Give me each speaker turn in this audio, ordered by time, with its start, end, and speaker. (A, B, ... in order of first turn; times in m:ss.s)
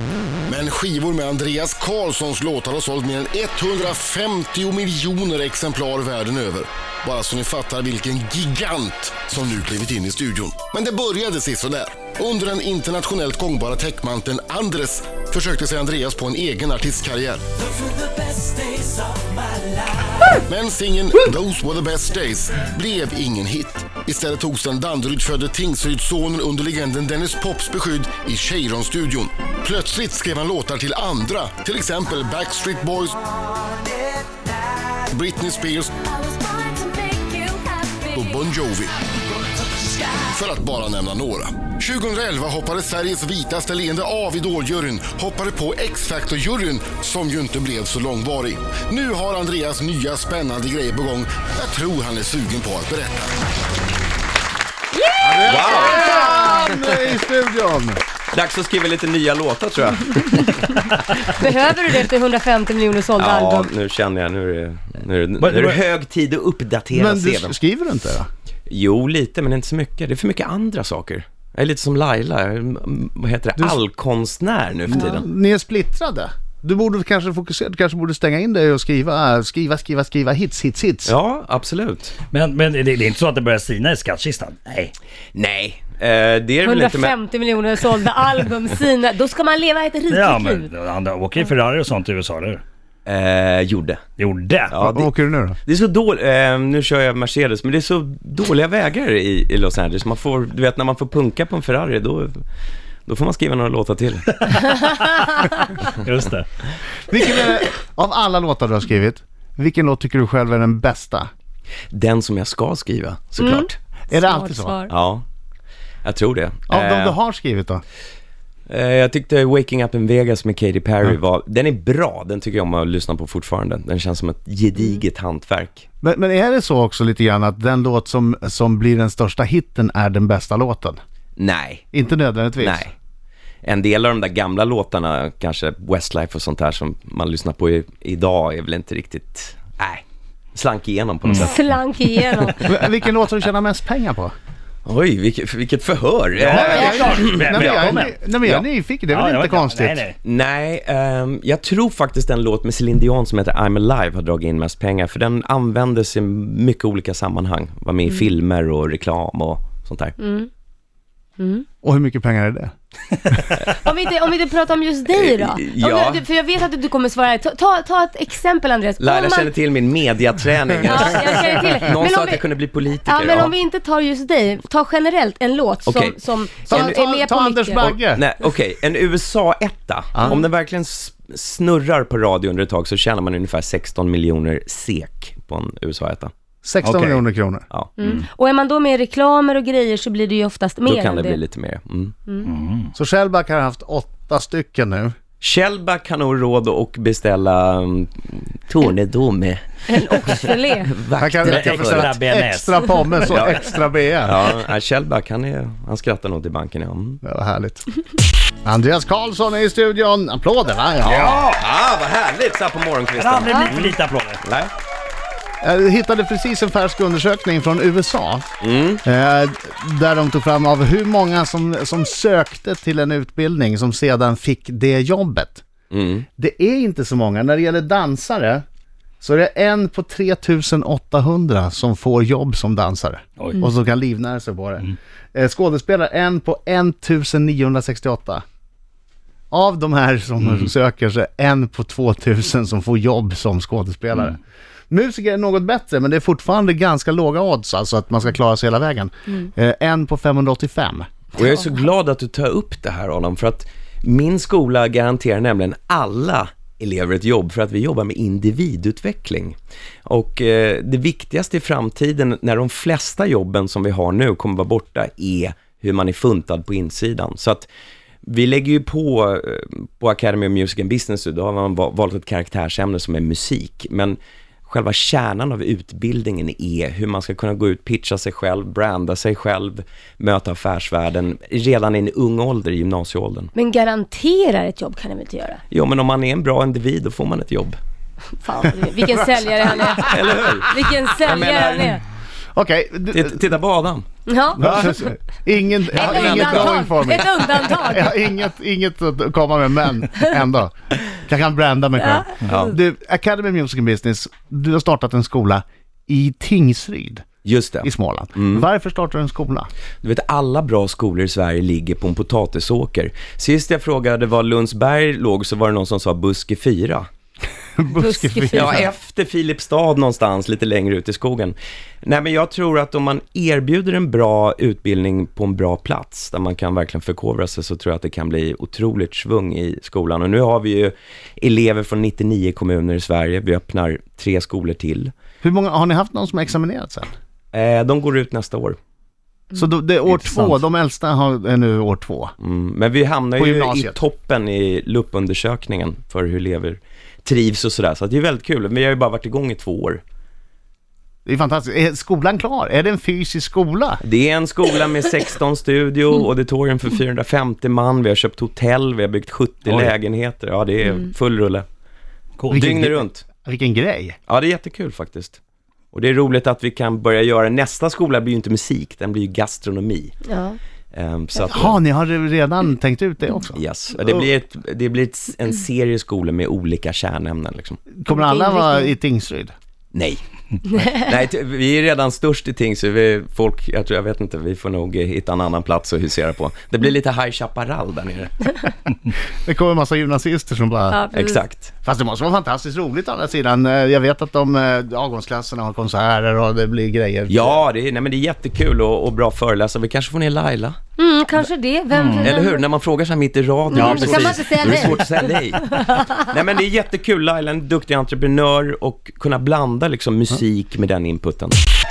0:00.5-0:17.4 A
0:17.8-0:19.0 B
0:20.3-0:33.2 A
0:35.0-0:35.9 A
0:36.0-0:38.2 C
0:38.1-0:39.0 A
0:40.1-0:53.3 A
0:54.9-0:56.8 C
0:55.2-0:58.0 D
0:55.4-0:56.7 B
0:58.3-1:01.5 B
1:00.9-1:03.7 C
1:03.2-1:07.6 B
1:05.4-1:05.8 E
1:06.9-1:08.3 D
1:08.7-1:15.2 B
1:14.9-1:21.1 D
1:21.0-1:22.1 B
1:22.3-1:24.9 E
1:25.3-1:27.2 B
1:26.6-1:30.7 C
1:30.1-1:32.6 E
1:33.0-1:34.0 B
1:34.2-1:34.8 E
1:34.7-1:35.1 B
1:34.8-1:35.6 D
1:35.6-1:42.4 B
1:43.1-1:44.5 B
1:44.5-1:46.5 E
1:47.1-1:51.3 D
1:51.9-1:53.8 B
1:53.4-1:54.9 C
1:54.1-1:54.8 D
1:54.9-1:55.2 B
1:56.0-1:57.2 B
1:56.7-1:57.8 D
1:58.7-2:05.9 B
2:06.0-2:11.0 D
2:11.4-2:11.8 B
2:11.9-2:12.9 D
2:12.6-2:12.9 B
2:13.6-2:20.0 B
2:20.5-2:21.5 B
2:21.4-2:22.6 C
2:22.6-2:24.3 D
2:24.8-2:27.6 B
2:26.4-2:28.1 E
2:26.5-2:30.0 D
2:29.1-2:30.1 E
2:30.2-2:40.2 B
2:40.2-2:40.5 C
2:41.4-2:41.6 C
2:41.8-2:42.7 D
2:43.2-2:43.6 D
2:43.8-2:49.5 C
2:45.1-2:46.2 B
2:49.0-2:53.5 B
2:50.8-2:52.4 C
2:53.0-2:57.9 C
2:55.8-2:57.0 B
2:56.7-2:58.2 D
2:57.8-3:06.3 B
3:06.6-3:07.6 D
3:06.8-3:07.2 E
3:08.0-3:11.4 C
3:10.8-3:12.1 B
3:12.4-3:12.9 E
3:12.9-3:15.1 D
3:15.4-3:22.2 B
3:19.9-3:20.9 C
3:21.2-3:24.5 D
3:21.4-3:23.0 E
3:23.3-3:27.2 B
3:27.2-3:27.8 D
3:28.6-3:31.4 D
3:31.0-3:34.7 B
3:33.1-3:34.4 E
3:35.6-3:45.6 D
3:38.6-3:39.0 B
3:45.9-3:46.2 B
3:46.4-3:48.6 D
3:49.2-3:58.4 D
3:59.5-4:04.4 D
4:04.9-4:11.1 D
4:11.3-4:27.7 B
4:28.2-4:43.5 B
4:43.5-4:45.6 C
4:45.7-4:47.8 B
4:48.4-4:52.0 C
4:49.9-4:52.0 B
4:52.5-4:53.4 D
4:53.1-4:54.0 B
4:54.3-4:54.7 C
4:54.6-4:54.9 B
4:54.6-5:07.2 D
4:55.9-4:58.2 C
4:55.9-4:56.8 B
5:02.0-5:02.7 C
5:02.4-5:02.7 B
5:07.4-5:08.6 B
5:07.8-5:09.7 D
5:10.0-5:17.1 B
5:17.8-5:18.9 D
5:18.0-5:18.9 C
5:18.5-5:35.1 B
5:35.4-5:37.1 D
5:37.5-5:38.8 B
5:39.5-5:42.3 D
5:40.1-5:40.6 B
5:42.4-5:50.0 B
5:43.4-5:44.0 D
5:51.2-5:54.0 D
5:54.0-6:01.6 B
5:59.7-5:59.9 E
6:02.4-6:02.6 E
6:02.5-6:04.2 D
6:02.5-6:03.2 B
6:04.3-6:05.4 B
6:05.9-6:10.2 B
6:10.2-6:10.6 C
6:10.9-6:11.8 B
6:11.4-6:11.7 C
6:11.5-6:14.3 D
6:13.5-6:17.8 B
6:17.9-6:19.5 D
6:18.1-6:18.9 C
6:19.9-6:28.3 B
6:29.4-6:31.0 D
6:30.9-6:31.4 C
6:31.1-6:31.7 B
6:31.8-6:37.6 D
6:37.3-6:40.8 B
6:41.0-6:42.6 C
6:41.9-6:42.3 E
6:42.2-6:51.6 B
6:43.7-6:45.1 C
6:43.7-6:45.2 E
6:45.7-6:46.1 C